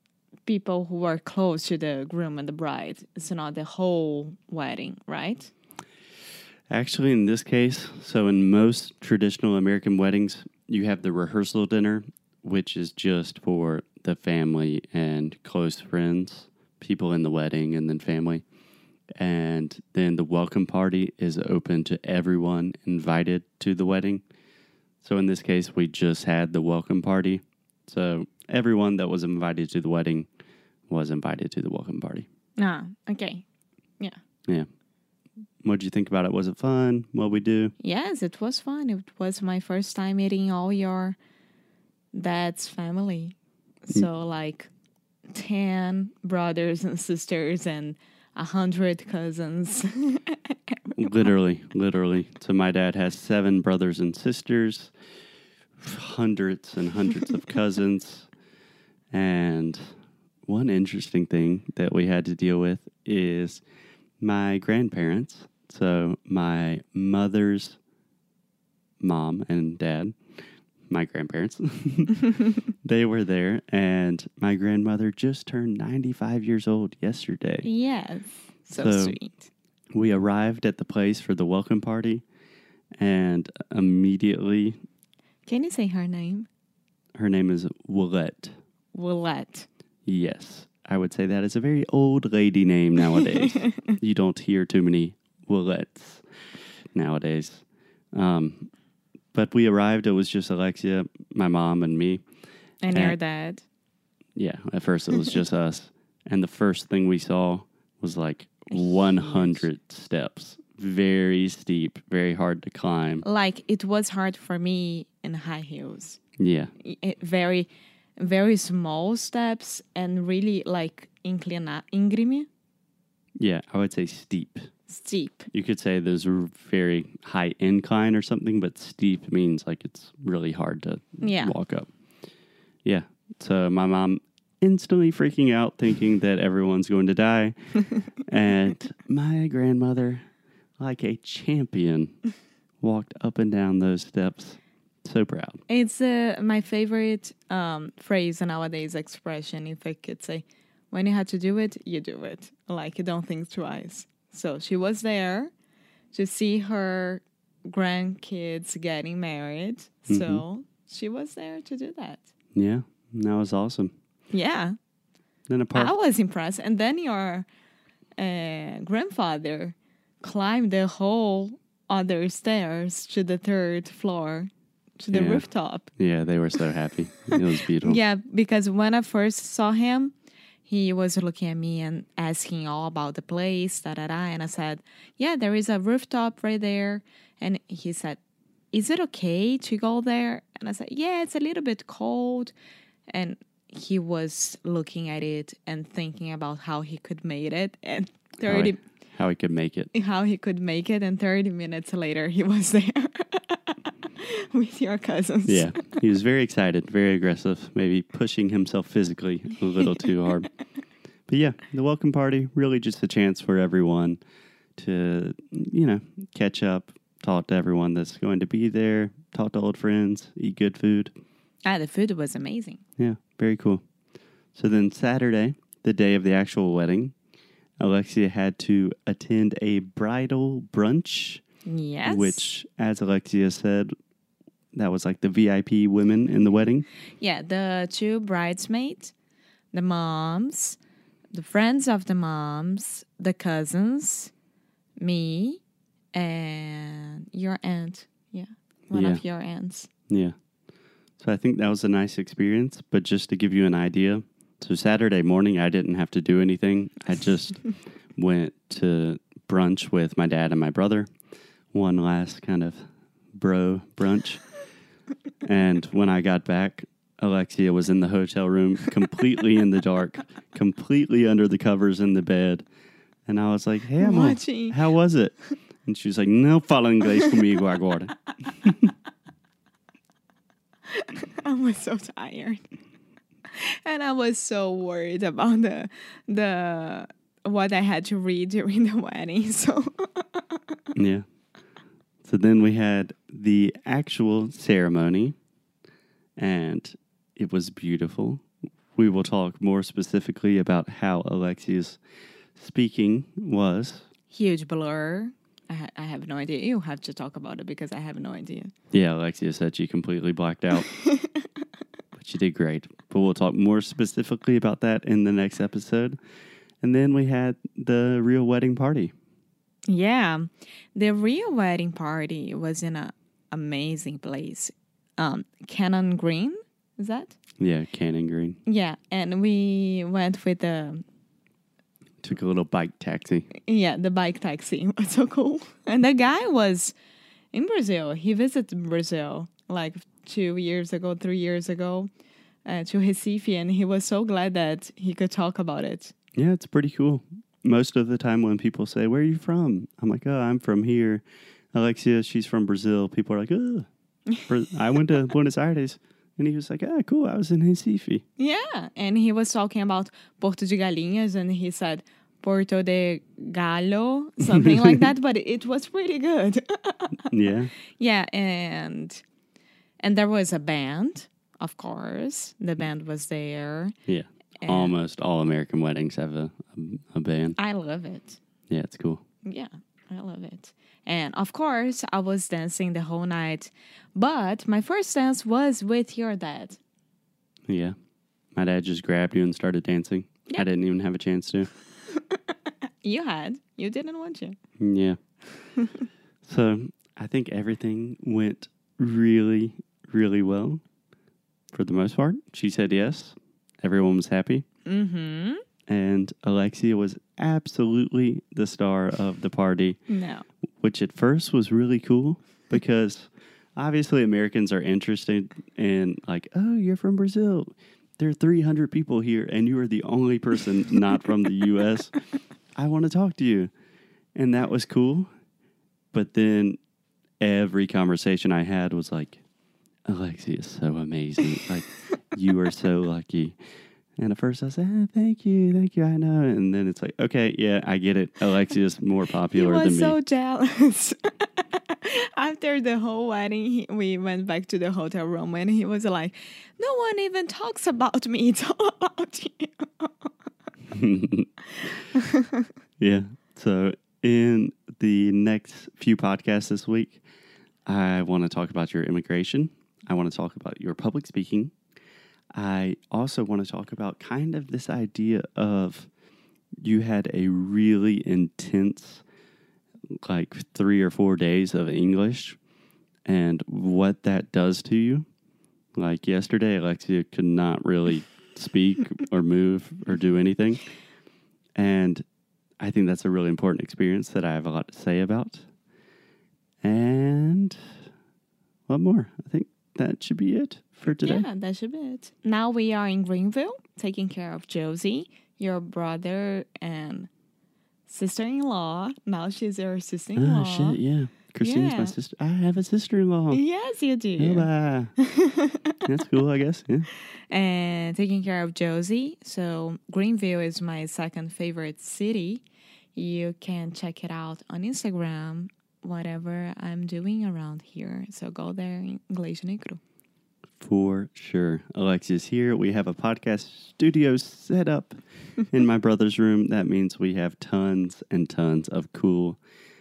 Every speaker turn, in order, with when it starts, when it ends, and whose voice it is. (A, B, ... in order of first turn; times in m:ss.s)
0:00.4-0:05.5 A
0:06.7-0:18.4 B
0:19.2-0:24.2 B
0:25.0-0:30.3 B
0:30.9-0:32.3 B
0:32.6-0:33.4 A
0:35.6-0:37.7 B
0:37.8-0:41.2 A
0:42.1-0:43.3 A
0:43.8-0:44.7 A
0:45.3-0:51.3 A
0:51.0-0:54.9 B
0:55.8-0:58.3 B
0:59.1-0:59.9 B
1:00.5-1:03.6 B
1:04.2-1:07.8 B
1:09.0-1:10.2 B
1:10.9-1:17.7 B
1:17.6-1:19.5 A
1:18.7-1:19.2 B
1:19.9-1:22.2 B
1:23.0-1:24.8 B
1:25.4-1:26.5 A
1:27.2-1:28.5 B
1:28.9-1:29.7 A
1:30.0-1:36.2 B
1:33.1-1:33.7 A
1:36.9-1:38.7 B
1:39.3-1:42.2 B
1:42.8-1:43.6 A
1:42.9-1:43.2 B
1:44.4-1:53.2 B
1:48.7-1:49.6 A
1:53.2-1:56.2 A
1:56.4-1:56.7 B
1:56.8-2:02.5 A
2:03.4-2:04.7 B
2:04.9-2:05.5 A
2:05.5-2:11.9 B
2:11.2-2:11.5 A
2:12.8-2:17.6 B
2:18.2-2:20.2 B
2:20.8-2:22.2 B
2:22.8-2:25.6 B
2:25.7-2:35.5 A
2:36.1-2:42.2 A
2:40.1-2:40.4 B
2:42.6-2:43.9 B
2:44.3-2:44.8 A
2:45.5-2:45.9 B
2:45.7-2:47.5 A
2:48.2-2:55.9 A
2:55.1-2:58.0 B
2:57.8-3:00.1 A
3:00.6-3:08.2 A
3:08.7-3:12.5 A
3:13.1-3:18.8 A
3:18.4-3:19.9 B
3:19.9-3:26.0 A
3:25.4-3:30.5 B
3:31.3-3:34.2 B
3:34.8-3:41.1 B
3:41.6-3:42.8 A
3:43.0-3:43.8 B
3:44.5-3:47.1 B
3:47.8-3:51.4 B
3:51.6-3:52.4 A
3:52.0-3:53.9 B
3:54.7-3:56.8 B
3:57.2-3:59.1 A
3:59.7-4:00.8 A
4:01.3-4:04.3 A
4:05.0-4:05.6 A
4:06.1-4:09.9 A
4:08.9-4:09.2 B
4:10.1-4:10.3 B
4:11.2-4:21.1 B
4:21.7-4:24.5 B
4:25.4-4:32.6 B
4:33.3-4:35.3 B
4:34.0-4:34.8 A
4:35.8-4:38.8 B
4:40.9-4:42.6 A
4:43.5-4:50.8 A
4:51.0-4:51.2 B
4:52.2-4:55.4 B
4:56.4-5:02.0 B
5:02.6-5:04.1 B
5:04.3-5:08.7 A
5:08.9-5:10.9 B
5:10.8-5:11.5 A
5:12.1-5:16.2 B
5:16.8-5:19.1 B
5:19.9-5:27.4 A
5:27.6-5:28.6 B
5:28.6-5:31.0 A
5:32.2-5:33.5 B
5:33.6-5:36.9 A
5:37.5-5:42.1 A
5:42.6-5:46.1 A
5:46.3-5:53.9 B
5:54.4-5:58.2 B
5:58.4-6:07.2 A
6:07.3-6:07.7 B
6:08.0-6:09.2 A
6:10.0-6:13.9 A
6:14.1-6:17.6 B
6:14.6-6:14.9 A
6:17.6-6:18.4 A
6:18.7-6:19.2 B
6:19.4-6:26.8 A
6:27.7-6:27.9 B
6:28.6-6:31.7 B
6:32.1-6:34.6 A
6:34.8-6:35.2 B
6:35.8-6:36.0 A
6:36.4-6:40.8 B
6:41.7-6:44.6 B
6:44.8-6:45.6 A
6:45.9-6:50.0 B
6:50.1-6:50.4 A
6:50.8-7:02.1 B
7:02.7-7:03.7 B
7:04.4-7:05.3 B
7:06.1-7:06.8 B
7:07.4-7:09.4 B
7:10.0-7:13.6 B
7:14.2-7:20.2 B
7:19.5-7:30.3 A
7:30.9-7:31.5 B
7:31.6-7:32.7 A
7:33.0-7:37.2 B
7:37.8-7:41.7 B
7:42.5-7:46.1 B
7:46.8-7:49.2 B
7:50.1-7:52.6 B
7:53.2-7:55.3 B
7:56.0-8:00.8 B
8:01.8-8:02.2 B
8:02.8-8:05.6 B
8:06.8-8:07.9 B
8:08.9-8:11.5 B
8:11.2-8:17.3 A
8:18.1-8:21.0 A
8:20.4-8:23.6 B
8:21.6-8:22.1 A
8:23.5-8:25.7 A
8:24.4-8:25.1 B
8:26.0-8:27.1 B
8:27.5-8:32.6 A
8:33.1-8:40.0 A
8:40.8-8:45.2 B
8:45.7-8:49.6 B